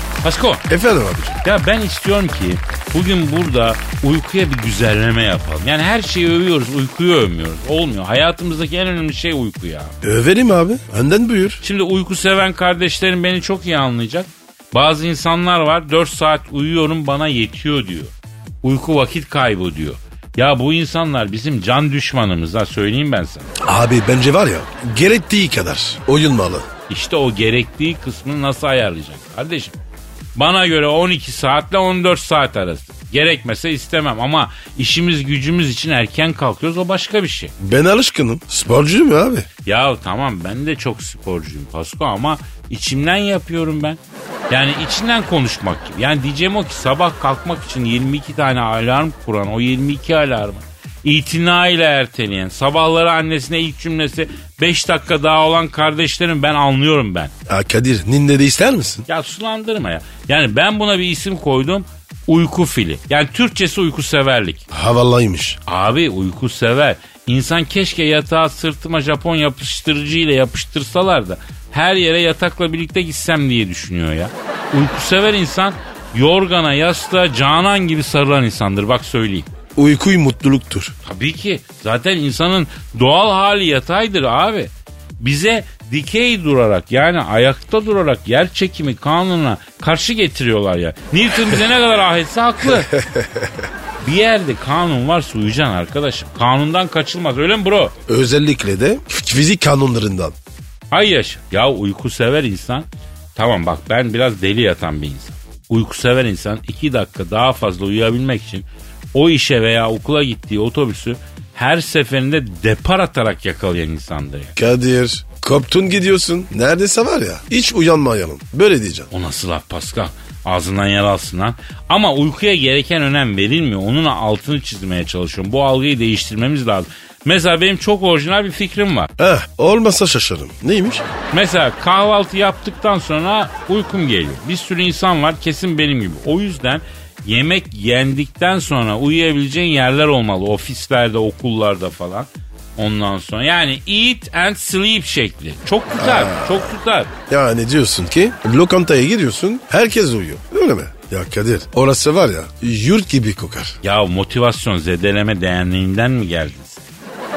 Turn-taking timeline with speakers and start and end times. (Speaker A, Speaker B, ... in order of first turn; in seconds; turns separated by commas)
Speaker A: 0.2-0.6, Speaker B: 0.7-1.4, Speaker A: 1.4-9.9, Speaker B: 10.0-11.6, Speaker A: 11.6-23.5, Speaker B: 23.6-26.7, Speaker A: 26.9-29.8, Speaker A: 30.4-37.5, Speaker B: 37.6-39.5, Speaker A: 39.6-44.0, Speaker A: 44.5-57.3, Speaker B: 57.5-59.0, Speaker A: 59.1-64.7, Speaker B: 64.7-65.6, Speaker A: 65.7-79.5, Speaker B: 79.8-80.9, Speaker A: 81.0-92.9, Speaker B: 92.9-93.5, Speaker A: 94.0-98.0, Speaker B: 98.1-100.3, Speaker A: 100.9-114.5, Speaker B: 114.6-119.1, Speaker A: 119.1-129.1, Speaker B: 129.2-131.1, Speaker A: 131.3-147.1, Speaker B: 146.0-146.7, Speaker B: 147.3-153.8, Speaker A: 153.8-156.8